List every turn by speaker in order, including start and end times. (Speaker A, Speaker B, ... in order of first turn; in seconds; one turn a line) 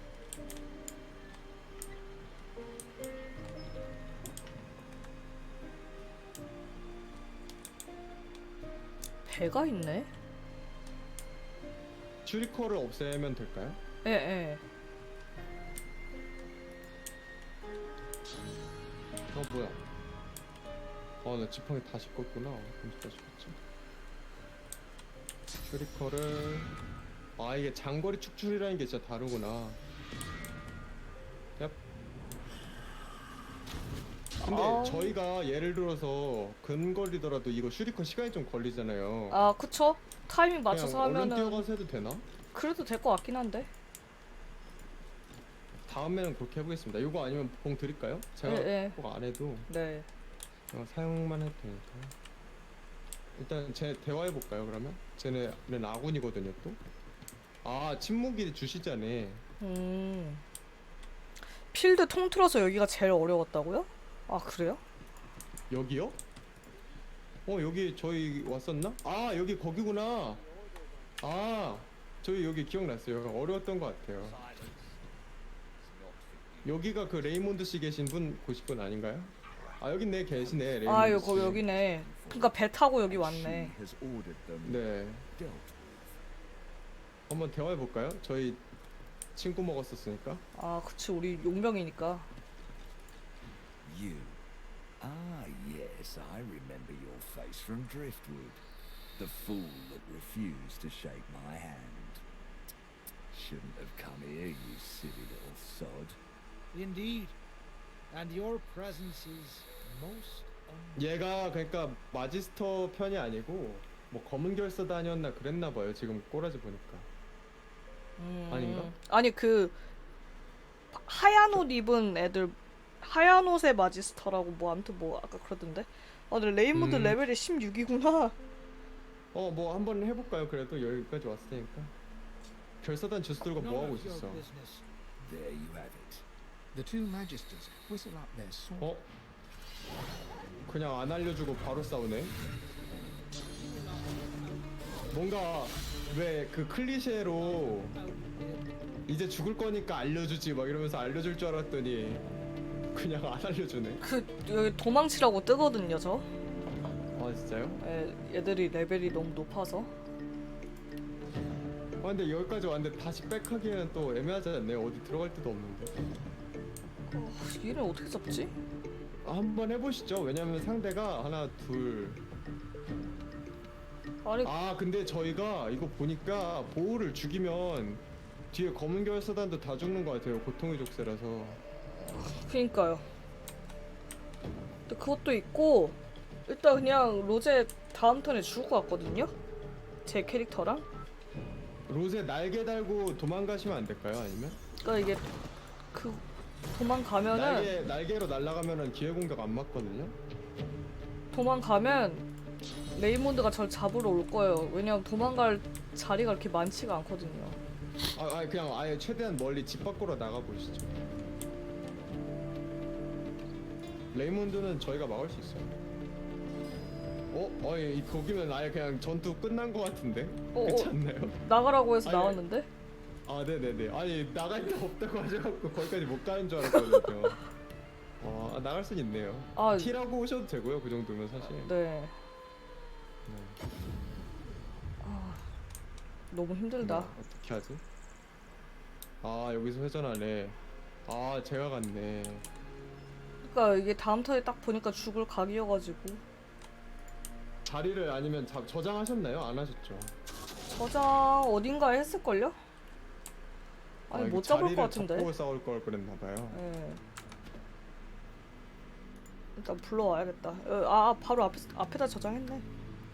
Speaker A: 9.2-10.1
Speaker B: 12.2-13.8
Speaker A: 14.0-14.6
Speaker B: 19.3-19.8
Speaker B: 21.2-23.6
Speaker B: 25.6-26.7
Speaker B: 27.4-29.8
Speaker A: 34.4-35.2
Speaker B: 34.4-39.5
Speaker A: 39.3-41.7
Speaker B: 40.7-42.2
Speaker A: 42.5-43.7
Speaker B: 45.9-49.7
Speaker A: 48.4-49.0
Speaker A: 49.7-50.1
Speaker B: 50.7-52.1
Speaker B: 53.4-56.8
Speaker B: 57.6-59.4
Speaker A: 59.6-60.4
Speaker A: 61.7-64.8
Speaker B: 65.7-66.2
Speaker B: 67.5-70.4
Speaker B: 71.2-74.4
Speaker C: 74.2-75.0
Speaker C: 75.8-77.2
Speaker B: 76.6-81.6
Speaker C: 80.3-86.2
Speaker A: 80.8-83.7
Speaker B: 84.6-85.2
Speaker B: 87.3-88.6
Speaker B: 89.3-90.4
Speaker A: 90.5-92.3
Speaker C: 93.8-94.4
Speaker C: 95.0-98.6
Speaker C: 99.2-102.2
Speaker C: 103.3-106.2
Speaker D: 106.7-107.3
Speaker D: 108.1-111.0
Speaker E: 108.1-110.2
Speaker B: 111.0-117.1
Speaker A: 118.2-119.8
Speaker B: 118.5-118.9
Speaker A: 120.9-128.3
Speaker B: 126.7-127.2
Speaker B: 129.3-131.9
Speaker B: 132.8-134.4
Speaker D: 133.5-134.8
Speaker C: 135.2-136.2
Speaker E: 136.7-138.9
Speaker B: 138.8-139.1
Speaker B: 140.7-142.3
Speaker D: 143.3-145.3
Speaker B: 145.1-148.0
Speaker D: 147.1-149.0
Speaker B: 149.1-152.2
Speaker B: 152.9-154.0
Speaker A: 154.0-156.3
Speaker B: 157.2-157.8
Speaker A: 157.8-159.9
Speaker B: 162.0-166.0
Speaker A: 167.1-168.5
Speaker B: 169.2-172.2
Speaker A: 174.2-174.5
Speaker B: 174.4-181.6
Speaker A: 182.0-183.0
Speaker A: 184.9-189.3
Speaker A: 190.1-190.8
Speaker B: 191.9-194.6
Speaker A: 194.8-195.2
Speaker A: 195.9-197.7
Speaker B: 197.3-200.1
Speaker A: 201.3-202.2
Speaker A: 202.9-207.6
Speaker B: 208.1-210.9
Speaker B: 214.1-215.7
Speaker B: 217.3-221.4
Speaker A: 220.5-222.7
Speaker B: 222.0-222.4
Speaker B: 223.2-227.4
Speaker B: 228.2-231.7
Speaker A: 229.6-229.9
Speaker A: 231.4-232.1
Speaker B: 233.2-233.6
Speaker A: 235.0-235.4
Speaker A: 236.3-237.1
Speaker B: 236.8-237.8
Speaker B: 239.2-242.4
Speaker A: 243.4-246.2
Speaker B: 247.6-250.1
Speaker A: 250.7-252.6
Speaker A: 254.1-255.3
Speaker B: 254.1-256.6
Speaker A: 256.5-257.0
Speaker A: 259.6-262.6